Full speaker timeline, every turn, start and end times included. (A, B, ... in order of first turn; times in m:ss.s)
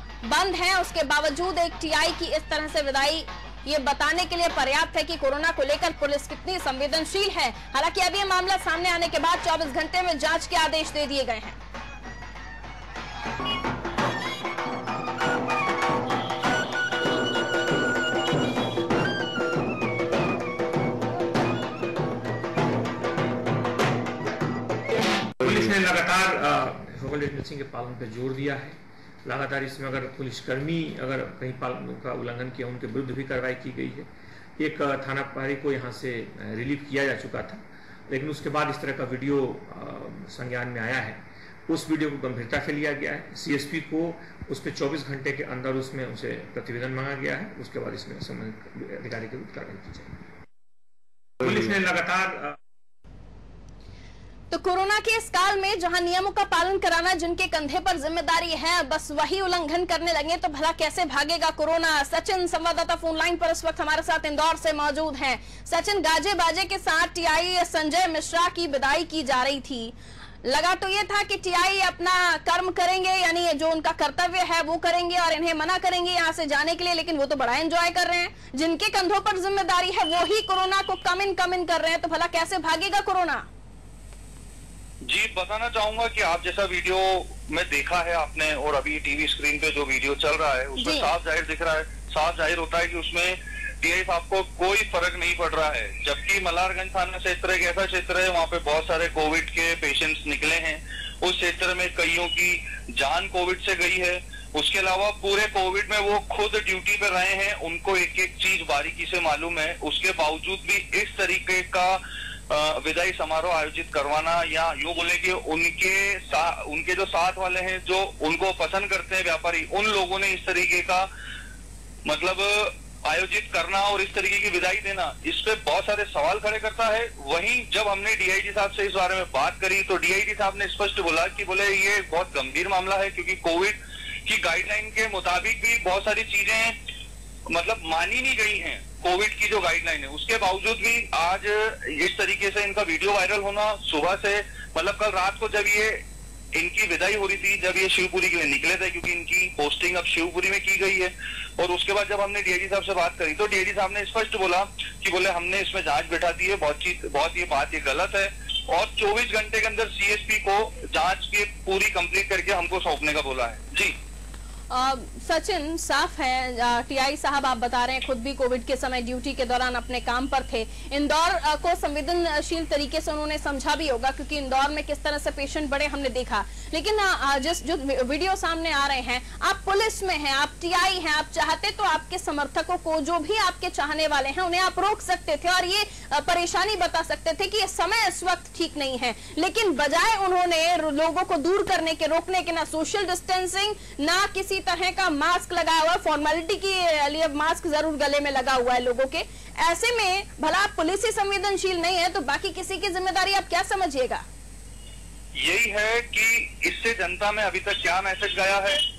0:00.2-0:11.6 A
0:25.4-0:50.1 B
0:51.4-0:52.6 B
0:54.5-1:23.5 A
1:25.0-2:01.1 C
1:30.8-1:31.1 A
2:02.0-2:16.8 C
2:17.5-2:26.0 C
2:26.5-2:44.0 C
2:44.7-3:24.2 A
3:25.4-3:28.8 C